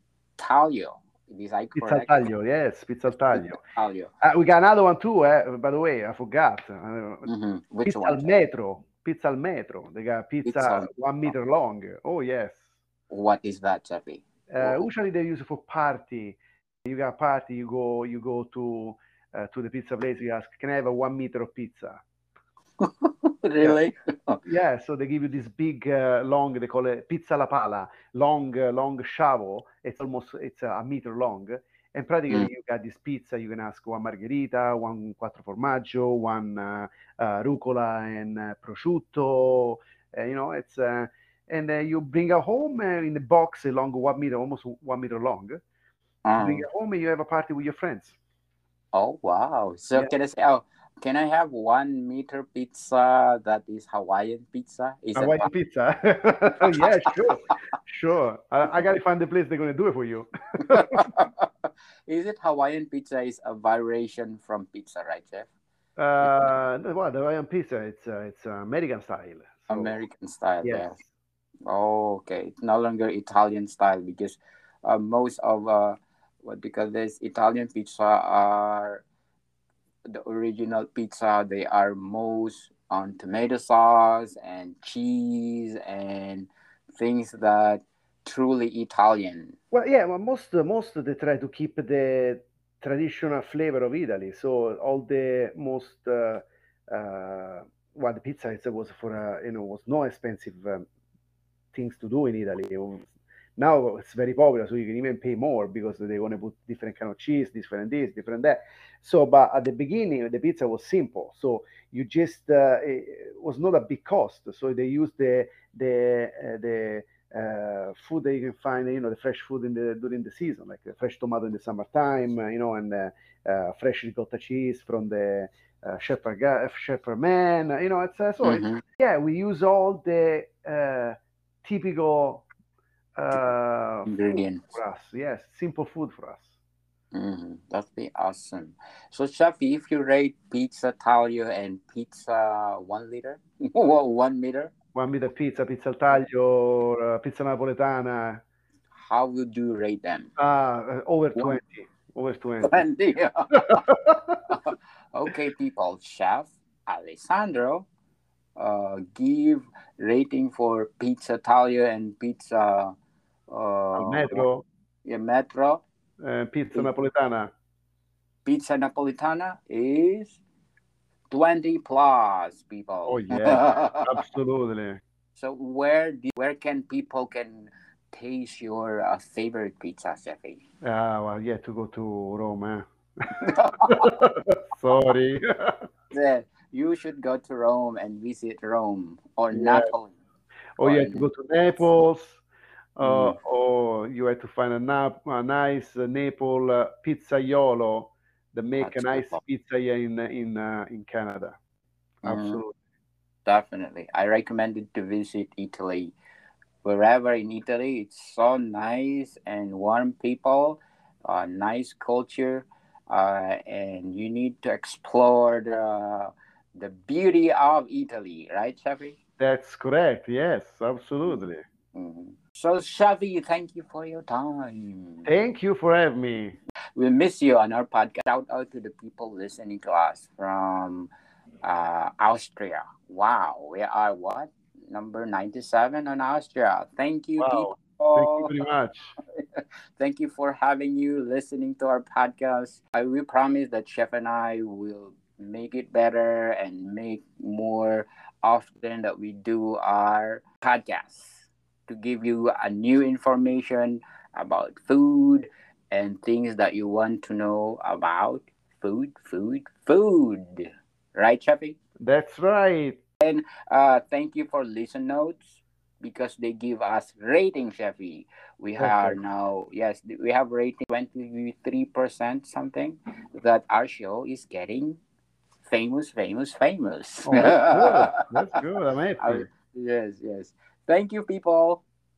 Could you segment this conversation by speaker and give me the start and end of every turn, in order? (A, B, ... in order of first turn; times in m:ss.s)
0:00.4-0:02.3 A
0:01.8-0:03.6 B
0:03.3-0:04.1 A
0:04.2-0:07.3 B
0:07.3-0:08.4 A
0:07.8-0:12.7 B
0:10.4-0:10.9 A
0:13.1-0:14.8 A
0:14.5-0:22.0 B
0:22.8-0:24.4 A
0:24.4-0:45.6 B
0:46.2-0:46.7 A
0:46.4-0:48.2 B
0:48.9-0:55.5 A
0:55.2-1:01.0 B
1:00.7-1:05.5 A
1:06.0-1:10.0 B
1:06.2-1:06.5 A
1:09.7-1:11.0 A
1:10.6-1:11.1 B
1:11.7-1:19.0 A
1:20.1-1:29.6 A
1:29.7-1:40.9 B
1:41.7-2:12.4 B
2:08.4-2:08.8 A
2:13.2-2:16.6 B
2:14.1-2:14.6 A
2:17.1-2:24.7 A
2:25.0-2:28.4 B
2:28.9-2:30.3 A
2:30.4-2:32.8 B
2:32.6-2:33.9 A
2:33.5-2:34.4 B
2:34.5-2:37.9 A
2:38.6-2:42.9 A
2:43.5-2:44.5 A
2:43.9-2:44.6 B
2:45.0-2:45.8 A
2:46.2-2:47.5 B
2:48.5-2:50.4 A
2:51.3-2:54.1 A
2:53.1-2:55.0 B
2:55.4-3:00.6 A
3:00.8-3:05.8 B
3:03.4-3:04.1 A
3:06.1-3:10.2 A
3:09.5-3:09.9 B
3:10.8-3:12.4 B
3:10.8-3:11.3 A
3:13.0-3:21.6 B
3:13.0-3:13.4 A
3:18.8-3:19.4 A
3:22.2-3:22.6 A
3:22.2-3:22.8 B
3:23.5-3:26.2 A
3:26.8-3:39.2 A
3:39.4-3:41.6 B
3:41.9-3:45.3 A
3:45.2-3:46.6 B
3:47.0-3:51.1 A
3:51.6-3:58.6 A
3:57.4-3:59.1 B
3:59.3-4:21.8 A
4:22.0-4:23.0 B
4:23.2-4:35.0 A
4:28.8-4:29.2 B
4:35.6-4:38.2 A
4:37.3-4:39.5 B
4:39.2-4:41.8 A